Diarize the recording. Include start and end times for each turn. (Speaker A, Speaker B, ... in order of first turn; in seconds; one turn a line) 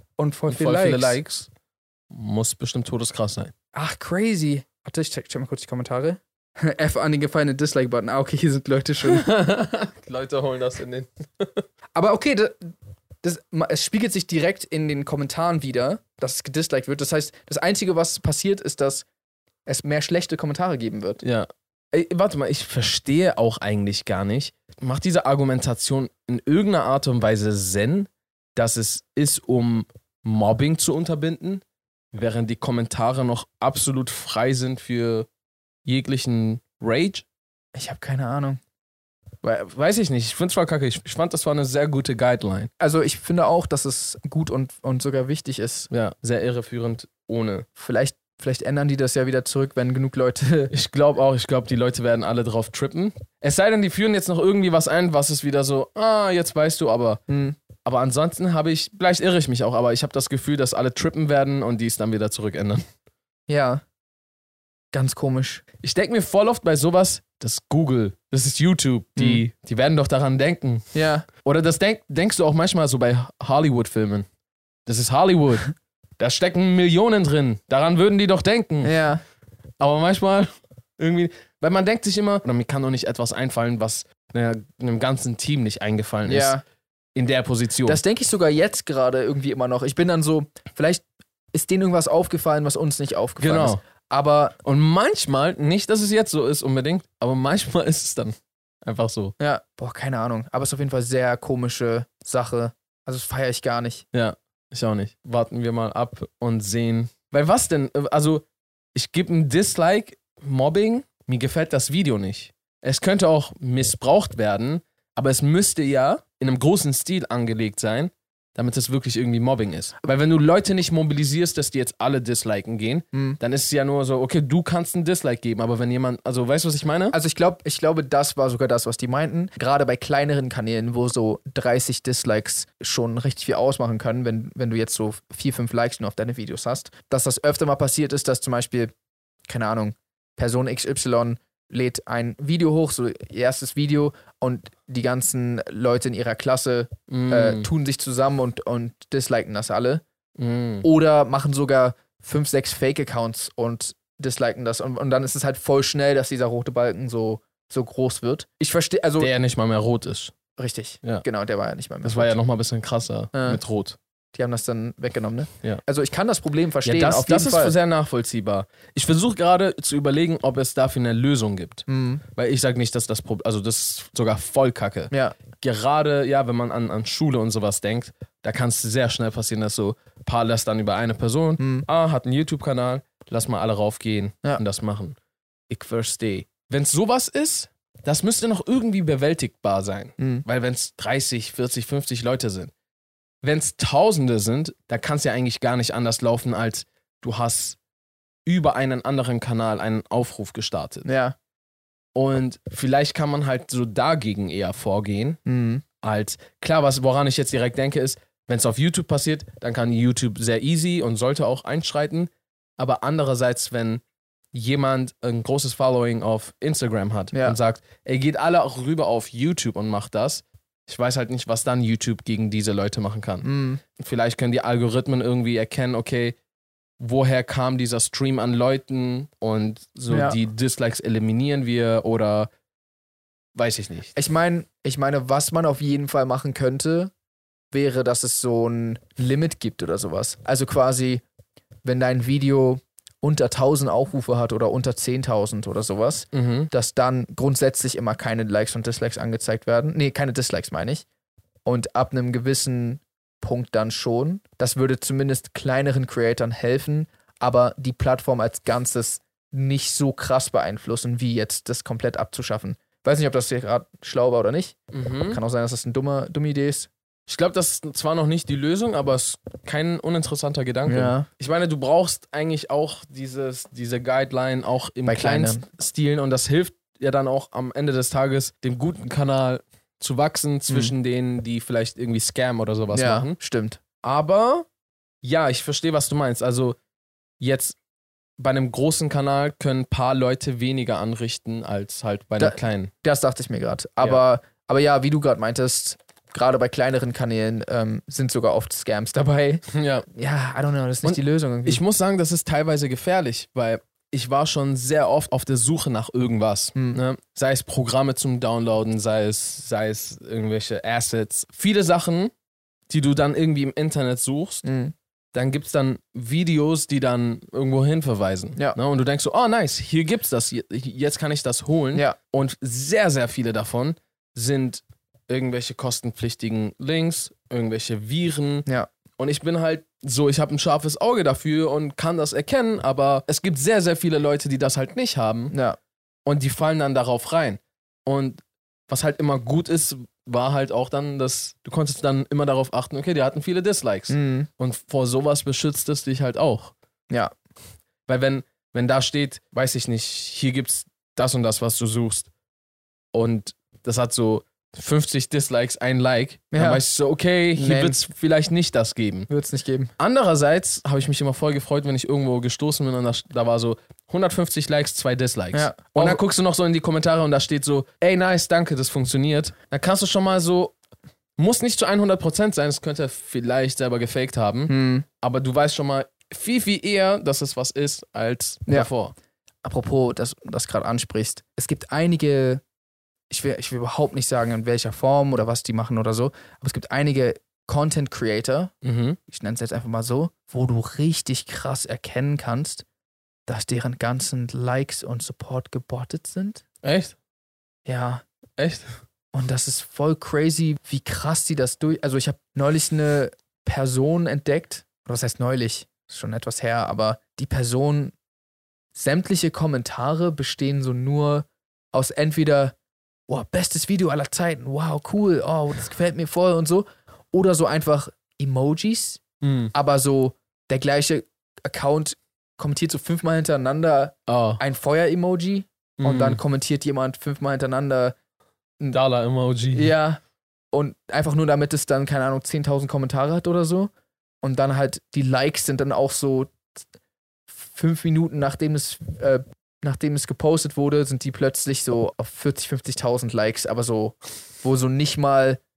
Speaker A: 0.2-1.2
Speaker B: 0.5-1.5
Speaker B: 2.1-3.5
Speaker A: 3.7-9.3
Speaker B: 9.0-11.6
Speaker A: 11.9-12.7
Speaker A: 13.2-19.1
Speaker A: 19.7-21.2
Speaker B: 21.2-35.3
Speaker B: 35.9-37.2
Speaker A: 37.8-38.6
Speaker B: 39.4-42.7
Speaker A: 42.8-45.9
Speaker B: 45.9-47.7
Speaker A: 47.8-50.7
Speaker B: 50.7-57.2
Speaker A: 57.3-57.6
Speaker B: 57.8-62.8
Speaker A: 63.5-63.8
Speaker A: 64.9-65.6
Speaker B: 65.8-74.3
Speaker A: 69.2-69.4
Speaker A: 70.9-71.3
Speaker B: 74.9-79.0
Speaker A: 78.8-79.2
Speaker B: 79.8-86.5
Speaker A: 86.3-86.6
Speaker B: 87.2-88.0
Speaker A: 87.9-94.5
Speaker B: 93.4-93.8
Speaker B: 94.6-99.3
Speaker A: 99.4-104.0
Speaker B: 104.1-127.2
Speaker A: 123.1-123.4
Speaker A: 127.1-138.9
Speaker A: 139.5-150.0
Speaker B: 147.1-147.7
Speaker B: 150.4-150.9
Speaker A: 150.8-159.3
Speaker B: 159.2-160.3
Speaker A: 160.6-162.3
Speaker B: 162.0-164.0
Speaker A: 163.3-163.6
Speaker A: 164.3-167.7
Speaker B: 166.8-185.2
Speaker A: 171.9-172.2
Speaker A: 181.6-181.9
Speaker B: 185.7-192.7
Speaker A: 190.2-190.4
Speaker B: 193.4-197.8
Speaker B: 198.5-201.1
Speaker A: 201.1-201.3
Speaker B: 202.2-205.4
Speaker A: 205.5-205.8
Speaker B: 206.0-214.0
Speaker B: 214.5-226.4
Speaker A: 223.4-223.8
Speaker B: 227.0-232.5
Speaker A: 230.1-230.4
Speaker B: 233.6-234.1
Speaker A: 234.2-237.1
Speaker A: 237.7-241.2
Speaker A: 241.8-251.1
Speaker B: 246.3-246.7
Speaker A: 251.7-264.8
Speaker B: 264.9-265.4
Speaker A: 265.3-266.9
Speaker B: 267.3-283.4
Speaker A: 270.9-271.3
Speaker A: 275.1-275.7
Speaker A: 280.7-280.9
Speaker A: 282.9-283.8
Speaker B: 284.0-284.7
Speaker B: 285.2-286.8
Speaker B: 287.4-287.8
Speaker B: 288.4-292.9
Speaker A: 292.4-301.8
Speaker B: 299.7-300.1
Speaker B: 301.0-312.3
Speaker A: 306.8-307.0
Speaker B: 312.9-314.6
Speaker A: 314.6-314.9
Speaker B: 315.3-328.7
Speaker B: 329.2-335.5
Speaker A: 335.5-335.8
Speaker B: 336.3-346.7
Speaker A: 344.1-344.5
Speaker B: 348.1-352.3
Speaker B: 353.1-359.3
Speaker A: 356.5-356.8
Speaker A: 357.6-358.0
Speaker A: 359.3-359.9
Speaker B: 360.0-370.7
Speaker A: 365.5-366.2
Speaker B: 371.4-379.1
Speaker A: 374.7-375.1
Speaker A: 379.6-382.6
Speaker A: 383.3-388.7
Speaker B: 388.8-389.2
Speaker A: 389.3-392.9
Speaker A: 393.5-396.6
Speaker B: 396.8-397.2
Speaker A: 397.9-398.2
Speaker B: 398.6-398.9
Speaker A: 399.3-408.1
Speaker A: 408.9-412.8
Speaker A: 413.3-428.1
Speaker B: 419.4-419.7
Speaker B: 424.3-424.6
Speaker B: 426.0-426.4
Speaker B: 428.9-429.9
Speaker A: 429.7-430.2
Speaker A: 430.7-433.9
Speaker A: 434.4-436.8
Speaker A: 437.5-445.6